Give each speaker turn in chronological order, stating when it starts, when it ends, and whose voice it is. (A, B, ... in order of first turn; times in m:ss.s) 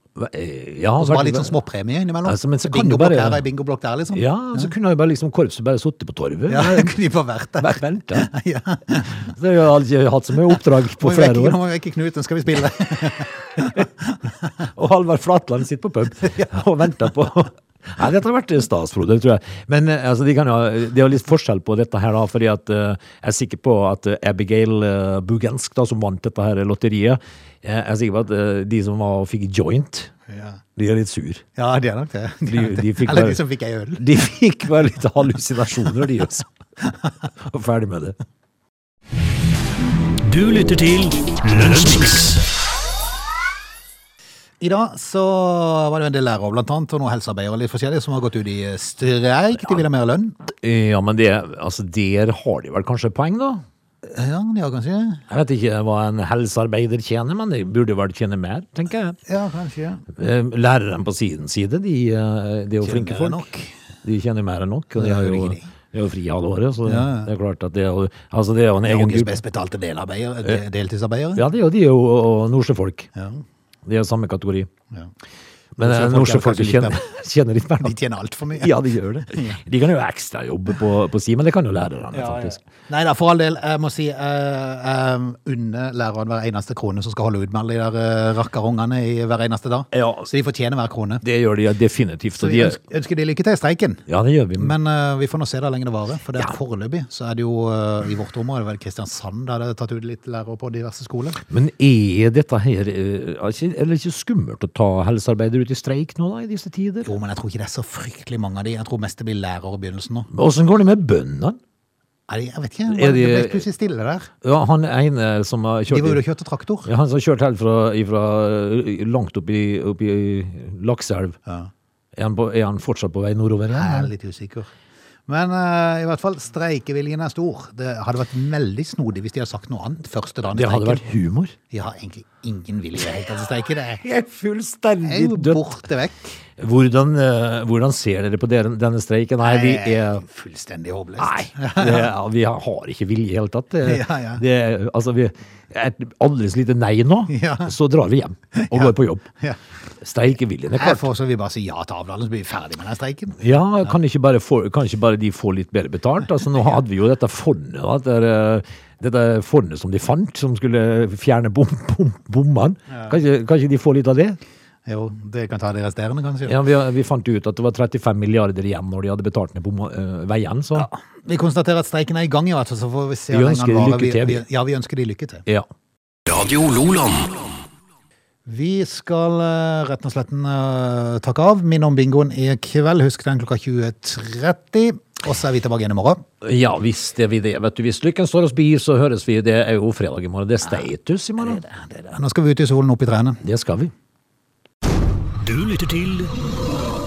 0:00.2-0:01.6 A
0:01.0-0:04.7 B
0:02.2-0:03.4 A
0:04.1-0:06.9 A
0:06.5-0:09.3 B
0:07.6-0:08.3 A
0:09.1-0:11.6 A
0:11.0-0:14.0 B
0:13.6-0:13.8 A
0:14.6-0:30.1 A
0:30.3-0:30.6 B
0:30.8-0:31.4 A
0:31.6-0:34.1 B
0:32.5-0:33.4 A
0:34.0-0:36.5 A
0:37.4-0:38.2 A
0:40.2-0:42.4 C
0:44.6-0:50.4 B
0:50.5-0:53.6 A
0:54.0-0:55.2 B
0:55.3-0:59.2 A
0:59.3-1:00.0 B
1:00.1-1:03.5 A
1:02.8-1:03.7 B
1:04.0-1:09.4 A
1:05.0-1:05.7 B
1:06.8-1:07.3 B
1:08.8-1:11.4 B
1:11.4-1:13.1 A
1:13.1-1:13.4 B
1:13.8-1:14.7 A
1:15.8-1:17.0 B
1:15.8-1:17.9 A
1:17.8-1:18.7 B
1:18.6-1:22.6 A
1:19.3-1:19.6 B
1:22.1-1:31.2 B
1:29.9-1:30.3 A
1:31.2-1:32.8 A
1:32.4-1:34.0 B
1:34.1-1:34.7 A
1:34.6-1:41.4 B
1:41.5-1:47.1 A
1:47.0-1:50.3 B
1:50.3-1:51.6 A
1:52.3-1:54.3 B
1:52.9-1:53.6 A
1:54.4-1:56.2 A
1:55.9-1:56.9 B
1:56.8-2:01.4 A
2:02.1-2:04.1 A
2:03.7-2:04.7 B
2:05.3-2:11.1 B
2:10.5-2:11.5 A
2:11.7-2:14.0 B
2:14.0-2:15.6 A
2:15.0-2:16.4 B
2:16.6-2:20.2 A
2:19.4-2:22.1 B
2:21.2-2:29.3 A
2:23.8-2:24.4 B
2:27.3-2:27.7 B
2:28.5-2:29.6 B
2:30.0-2:31.0 A
2:30.7-2:33.4 B
2:33.4-2:44.4 A
2:44.9-2:46.6 B
2:46.4-2:50.9 A
2:50.8-2:55.4 B
2:53.3-2:54.4 A
2:56.3-2:57.6 C
2:58.4-3:06.2 B
3:06.4-3:11.6 A
3:11.4-3:13.4 B
3:13.4-3:13.9 A
3:15.4-3:16.3 C